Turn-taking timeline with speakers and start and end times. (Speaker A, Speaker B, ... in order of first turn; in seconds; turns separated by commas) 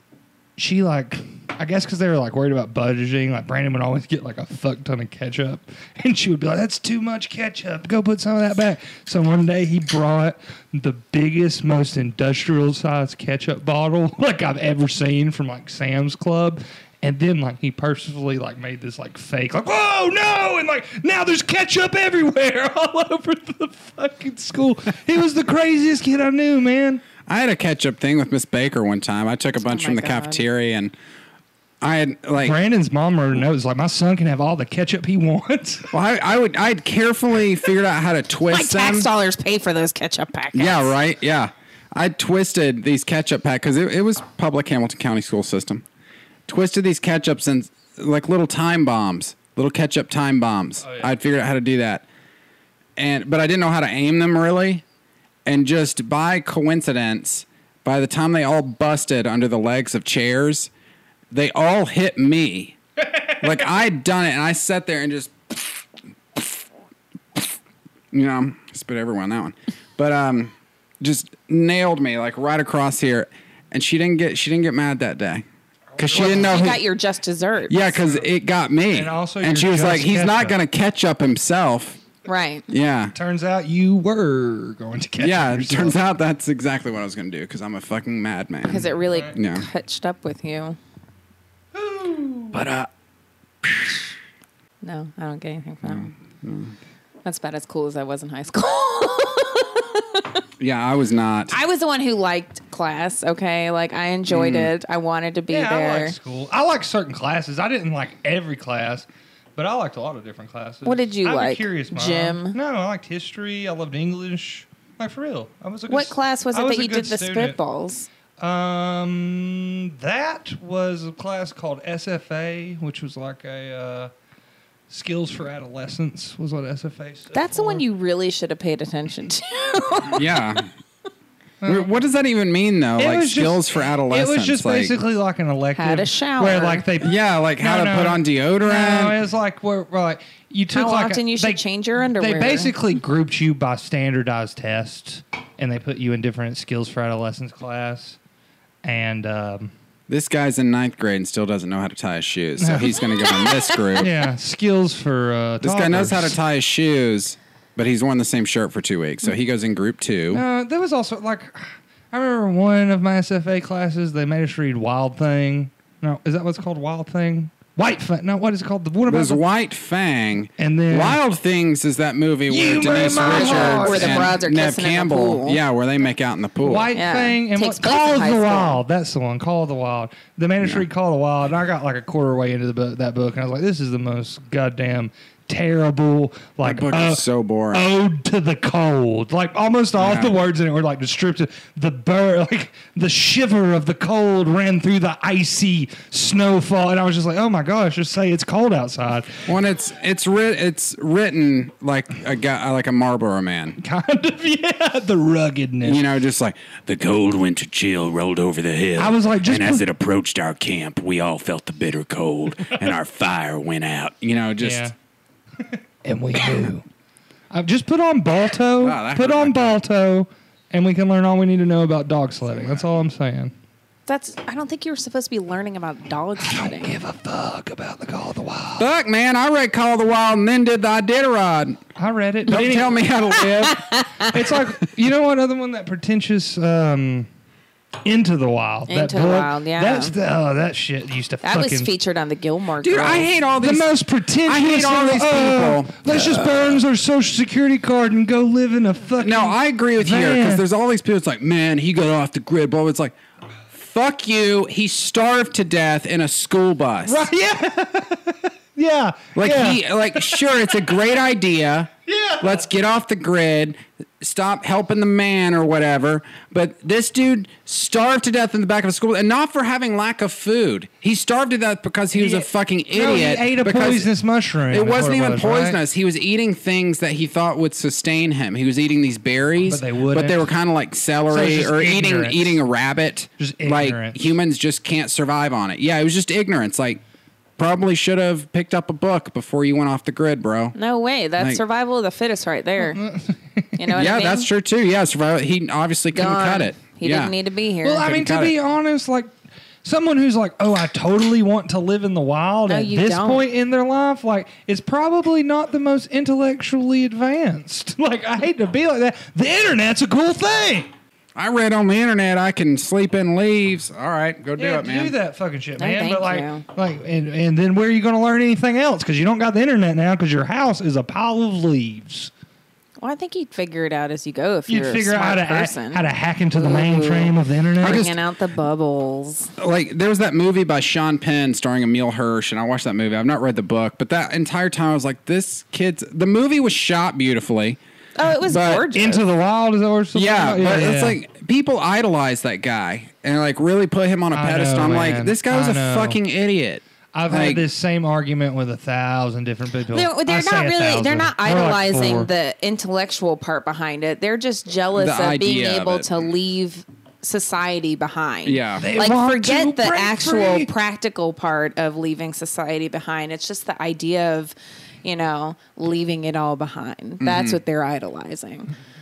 Speaker A: 0.6-27.0, Speaker B: 27.3-30.9, Speaker C: 29.6-30.4, Speaker B: 31.8-32.5, Speaker A: 32.4-35.9, Speaker B: 35.9-39.1, Speaker C: 38.5-40.9, Speaker B: 40.5-45.8, Speaker B: 46.5-52.0, Speaker A: 50.8-51.1, Speaker B: 53.0-54.8, Speaker B: 55.5-60.7, Speaker B: 61.3-62.8, Speaker B: 63.4-65.8, Speaker B: 66.3-66.6, Speaker B: 68.1-75.4, Speaker A: 75.9-76.8, Speaker B: 76.0-76.8, Speaker C: 76.1-78.0, Speaker B: 77.7-82.0, Speaker A: 78.0-78.2, Speaker A: 78.9-80.5, Speaker C: 82.2-82.7, Speaker B: 82.7-83.1, Speaker A: 83.1-86.0, Speaker B: 85.2-89.6, Speaker C: 88.6-90.8, Speaker A: 91.7-92.6, Speaker B: 92.5-92.9, Speaker B: 93.6-93.9, Speaker C: 94.8-96.1, Speaker B: 95.8-96.7, Speaker C: 97.2-100.4, Speaker B: 100.6-101.6, Speaker C: 101.5-106.1, Speaker B: 104.3-104.7, Speaker A: 105.5-117.6, Speaker C: 110.8-112.5, Speaker C: 115.9-118.1, Speaker A: 118.4-124.1, Speaker A: 124.9-127.8, Speaker C: 127.3-130.5, Speaker B: 130.1-130.7, Speaker A: 131.6-131.9, Speaker B: 131.7-135.0, Speaker A: 133.0-148.2, Speaker C: 135.8-136.8, Speaker B: 137.0-139.2, Speaker C: 140.7-142.7, Speaker A: 148.8-149.7, Speaker B: 150.1-154.1, Speaker A: 152.6-153.0, Speaker C: 153.2-154.0, Speaker A: 154.0-156.4, Speaker B: 155.6-160.4, Speaker A: 160.3-169.4, Speaker B: 169.1-176.9, Speaker A: 170.6-171.2, Speaker A: 172.5-174.4, Speaker C: 173.1-175.6, Speaker A: 176.6-199.4, Speaker C: 176.9-178.8, Speaker B: 186.6-187.8, Speaker B: 190.0-190.3, Speaker B: 199.5-203.8, Speaker A: 203.8-206.0, Speaker B: 205.8-214.9, Speaker A: 209.0-209.8, Speaker A: 214.6-214.9, Speaker A: 215.6-216.8, Speaker A: 217.5-223.5, Speaker B: 218.8-219.8, Speaker B: 222.5-222.8, Speaker C: 224.1-226.9, Speaker A: 226.4-228.9, Speaker B: 228.8-231.8, Speaker A: 231.9-233.0, Speaker B: 232.5-234.0, Speaker C: 233.3-234.3, Speaker A: 234.2-237.3, Speaker A: 238.0-241.9, Speaker C: 238.9-240.1, Speaker C: 241.4-243.3, Speaker B: 242.8-243.9, Speaker A: 243.6-250.6, Speaker B: 244.4-246.8, Speaker B: 249.2-253.2, Speaker B: 253.7-257.3, Speaker A: 257.0-260.8, Speaker B: 259.3-274.1, Speaker A: 262.1-262.6, Speaker A: 272.1-275.8, Speaker B: 274.7-287.0, Speaker A: 279.6-280.5, Speaker A: 281.3-282.6, Speaker A: 283.4-284.2, Speaker B: 287.6-290.7, Speaker C: 290.7-293.0, Speaker A: 292.8-293.9, Speaker C: 293.8-294.5, Speaker B: 293.9-297.3, Speaker C: 296.1-298.1, Speaker A: 297.8-299.3, Speaker B: 298.0-298.5, Speaker A: 299.8-310.9, Speaker C: 302.7-303.4, Speaker B: 311.4-315.1, Speaker A: 314.6-322.3, Speaker C: 315.8-316.6, Speaker C: 323.0-326.0, Speaker A: 324.7-328.1, Speaker C: 326.6-329.5, Speaker B: 327.8-328.1, Speaker B: 329.6-337.8, Speaker C: 338.1-339.2, Speaker B: 338.4-338.9, Speaker A: 338.9-341.2, Speaker B: 340.1-347.6, Speaker A: 344.3-346.2, Speaker A: 347.1-352.3, Speaker C: 349.9-368.7, Speaker B: 354.9-356.1, Speaker B: 358.4-358.9, Speaker A: 358.8-360.7, Speaker B: 367.2-367.6